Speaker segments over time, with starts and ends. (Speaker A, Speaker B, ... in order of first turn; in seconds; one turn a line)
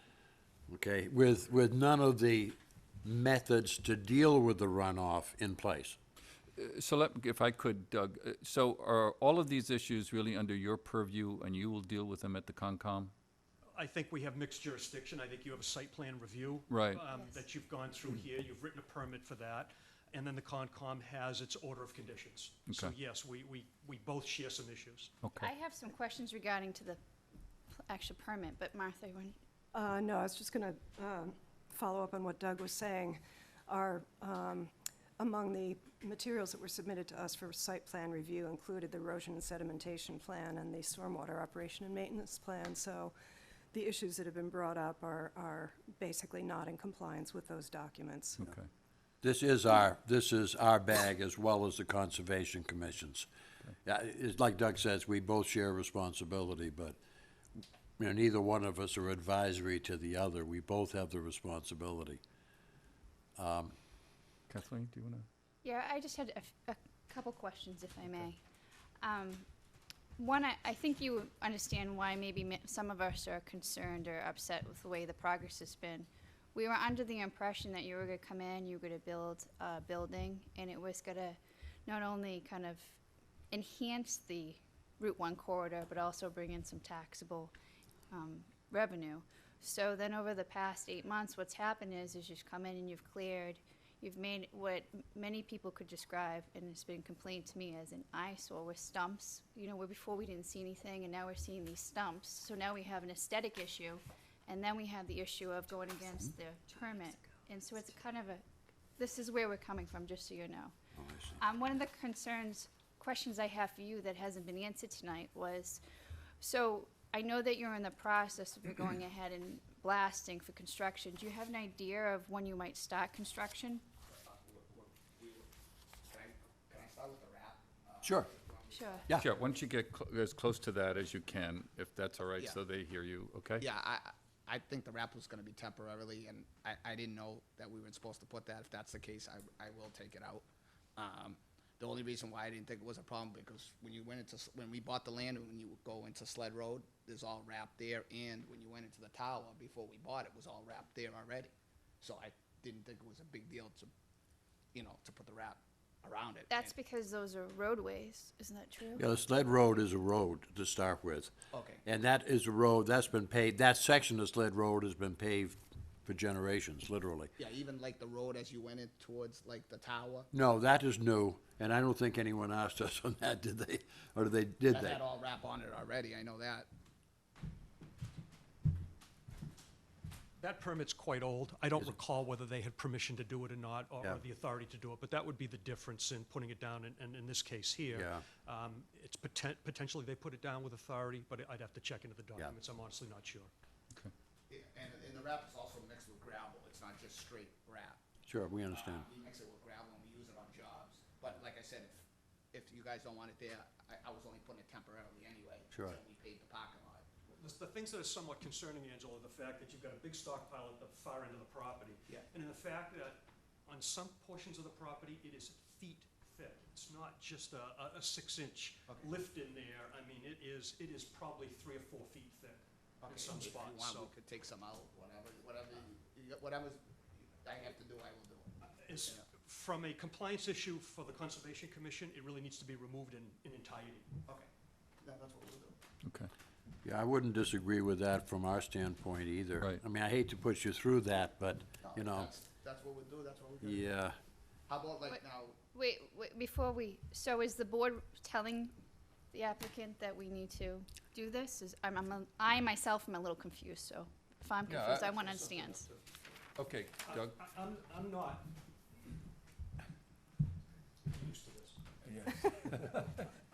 Speaker A: 0.7-6.0
Speaker B: 6.6-13.1
Speaker C: 13.8-25.1
Speaker B: 16.7-17.0
Speaker D: 17.1-17.4
Speaker B: 25.2-25.5
Speaker D: 25.4-27.0
Speaker D: 27.8-29.4
Speaker E: 29.7-43.2
Speaker E: 43.7-48.5
Speaker B: 48.4-48.7
Speaker A: 49.2-53.3
Speaker A: 53.9-57.0
Speaker A: 58.0-62.2
Speaker A: 63.4-63.7
Speaker B: 64.5-65.3
Speaker D: 65.6-68.4
Speaker D: 69.0-69.5
Speaker D: 70.2-83.0
Speaker D: 83.5-87.5
Speaker D: 88.1-108.4
Speaker D: 109.0-110.7
Speaker A: 111.0-111.4
Speaker D: 111.4-115.8
Speaker D: 116.4-123.8
Speaker F: 124.1-125.5
Speaker F: 126.1-128.9
Speaker A: 128.0-128.3
Speaker D: 128.7-129.1
Speaker B: 129.2-133.7
Speaker F: 133.6-140.4
Speaker F: 141.0-153.9
Speaker F: 154.7-156.7
Speaker D: 156.5-159.0
Speaker A: 159.0-161.3
Speaker F: 161.5-161.8
Speaker A: 161.8-167.3
Speaker F: 167.4-170.3
Speaker A: 170.3-175.0
Speaker F: 174.7-176.7
Speaker C: 180.4-193.5
Speaker A: 187.9-188.2
Speaker F: 194.5-198.0
Speaker A: 198.3-199.0
Speaker F: 198.7-207.1
Speaker C: 207.3-224.1
Speaker F: 223.0-228.5
Speaker C: 228.6-234.1
Speaker F: 235.0-235.8
Speaker B: 236.1-236.3
Speaker A: 236.8-242.3
Speaker F: 241.8-243.8
Speaker A: 243.6-244.1
Speaker F: 244.7-245.6
Speaker D: 245.7-248.7
Speaker D: 249.3-255.8
Speaker B: 254.7-255.2
Speaker C: 255.2-256.0
Speaker B: 256.6-257.4
Speaker C: 257.0-258.5
Speaker C: 261.1-261.9
Speaker B: 262.1-263.1